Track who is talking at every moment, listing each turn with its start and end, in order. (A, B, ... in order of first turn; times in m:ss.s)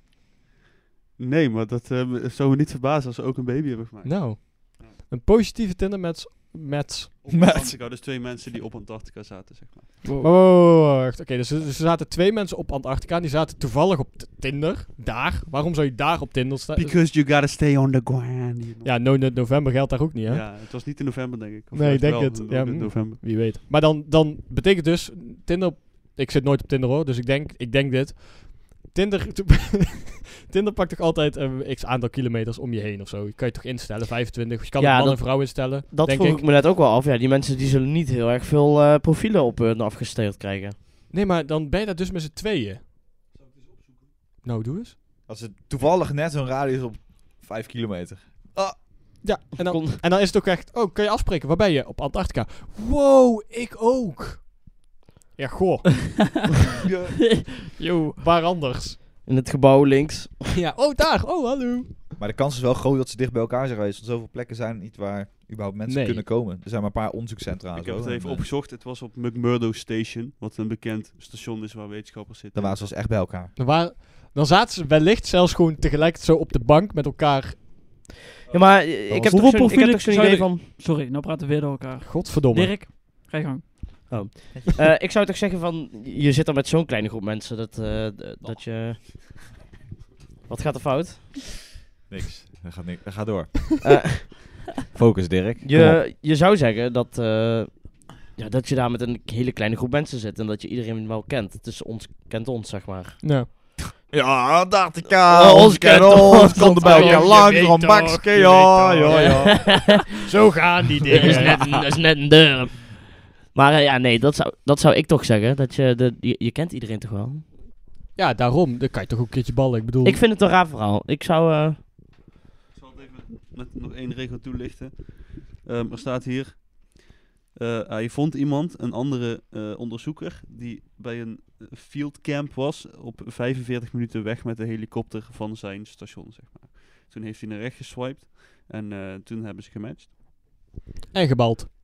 0:01.2-0:04.9 A
0:04.0-0:07.2 B
0:07.2-0:10.0 A
0:07.3-0:07.8 C
0:10.0-0:10.3 D
0:10.2-0:17.0 B
0:16.7-0:19.1 A
0:18.8-0:20.5 B
0:20.2-0:23.2 A
0:21.7-0:36.4 B
0:34.8-0:40.8 E
0:41.1-0:42.8 B
0:44.4-0:44.9 B
0:45.3-0:48.8 C
0:49.2-0:54.6 B
0:49.6-0:50.0 E
0:55.4-0:56.0 B
0:56.8-0:57.3 C
0:57.2-0:58.2 D
0:58.2-0:59.0 B
0:59.2-1:00.5 E
1:00.5-1:02.1 B
1:02.2-1:08.5 C
1:05.9-1:06.2 B
1:07.7-1:12.9 A
1:12.5-1:13.5 C
1:13.6-1:17.6 B
1:18.5-1:20.6 E
1:19.1-1:23.6 D
1:22.0-1:22.8 B
1:24.1-1:29.0 E
1:24.5-1:24.8 C
1:30.5-1:31.3 E
1:32.1-1:34.3 C
1:33.8-1:34.6 E
1:34.9-1:36.0 C
1:35.6-1:43.2 E
1:43.2-1:43.5 B
1:44.1-1:49.8 C
1:45.3-1:47.3 E
1:46.4-1:51.6 B
1:49.2-1:49.9 E
1:51.1-1:57.4 E
1:51.1-1:51.8 C
1:58.2-2:00.2 B
2:00.0-2:01.8 E
2:02.8-2:20.1 A
2:21.1-2:21.7 B